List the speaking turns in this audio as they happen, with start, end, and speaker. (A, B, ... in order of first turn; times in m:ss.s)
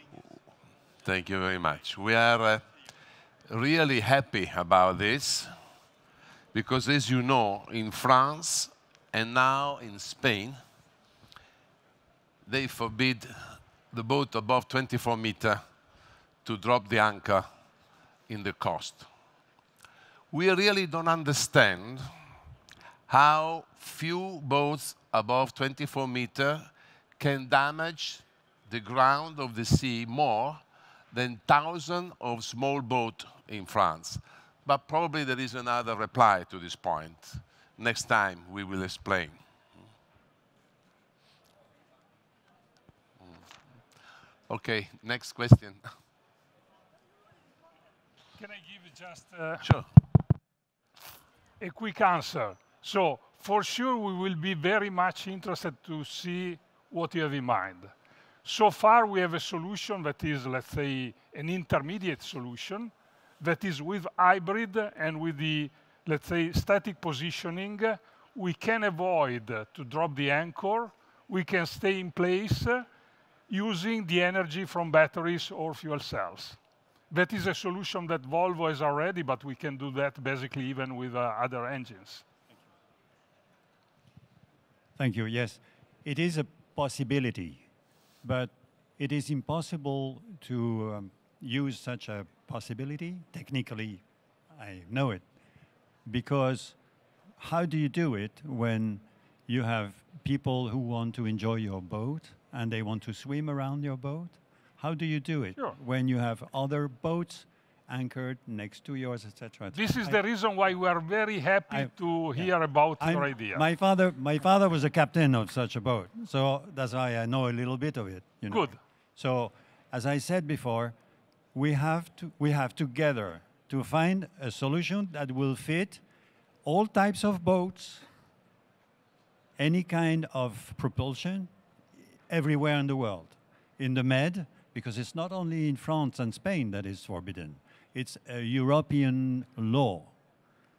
0:01.0-0:02.7 A
0:03.5-0:05.5 A
0:06.5-0:10.6 A
0:12.4-0:15.6 A
0:16.4-0:17.5 A
0:18.3-0:19.1 A
0:20.3-0:22.1 A
0:23.1-0:30.6 A
0:31.1-0:39.4 A
0:44.5-0:45.8 A
0:48.4-0:49.7 B
0:49.6-0:49.9 A
0:51.6-0:57.9 B
0:58.4-1:12.8 B
1:13.5-1:16.6 B
1:17.1-1:22.2 B
1:25.0-1:27.6 C
1:28.2-1:35.3 C
1:36.0-1:36.8 C
1:37.4-1:50.2 C
1:49.7-1:53.7 B
1:51.7-2:01.0 C
1:58.5-1:58.8 B
2:01.5-2:06.0 C
2:06.6-2:08.1 C
2:09.6-2:11.5 C
2:12.3-2:20.1 C